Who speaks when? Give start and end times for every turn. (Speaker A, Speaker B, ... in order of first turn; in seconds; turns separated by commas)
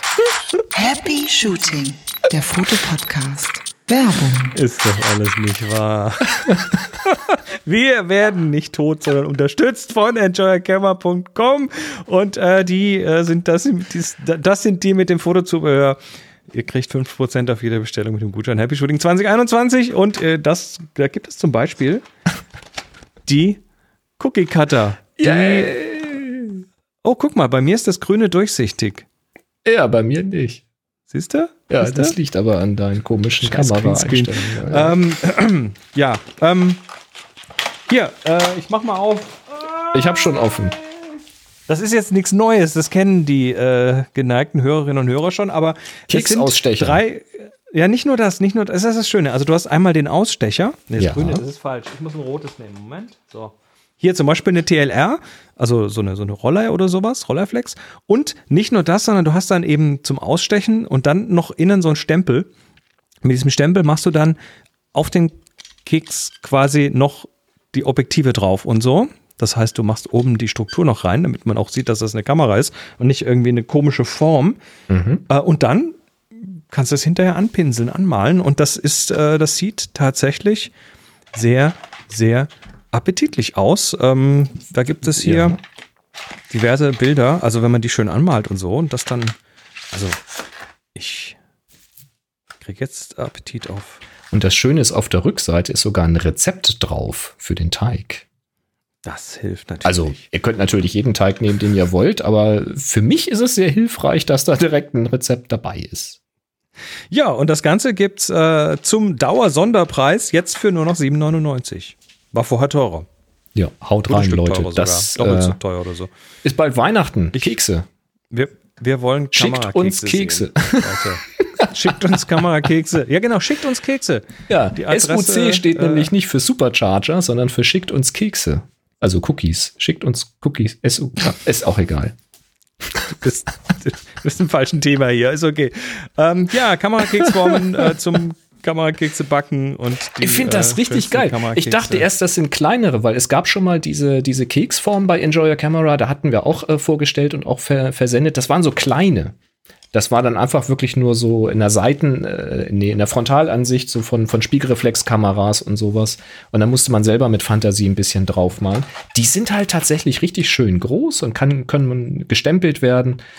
Speaker A: 0.7-4.6, Speaker B: 4.5-16.0, Speaker B: 16.5-22.0, Speaker B: 23.3-23.6, Speaker B: 24.2-25.8, Speaker C: 25.2-26.6, Speaker B: 27.0-29.1, Speaker C: 29.6-30.6, Speaker B: 31.1-32.1, Speaker C: 31.7-35.0, Speaker B: 33.4-36.8, Speaker B: 37.9-40.5, Speaker C: 39.9-40.8, Speaker B: 41.7-62.5, Speaker C: 46.1-47.0, Speaker C: 51.0-51.4, Speaker B: 63.2-64.4, Speaker B: 64.9-65.3, Speaker B: 65.8-74.6, Speaker C: 74.9-75.2, Speaker B: 75.3-80.7, Speaker B: 81.3-85.6, Speaker C: 85.0-85.6, Speaker B: 86.5-89.4, Speaker B: 89.9-90.2, Speaker B: 91.0-91.4, Speaker B: 92.6-94.0, Speaker C: 94.3-98.2, Speaker B: 99.0-100.2, Speaker C: 99.8-106.2, Speaker B: 107.1-113.1, Speaker C: 113.5-115.6, Speaker B: 114.1-116.1, Speaker C: 116.4-117.9, Speaker B: 118.3-126.1, Speaker C: 119.3-121.9, Speaker C: 124.5-132.1, Speaker B: 133.1-142.1, Speaker C: 137.2-137.6, Speaker C: 140.2-149.3, Speaker C: 149.9-163.2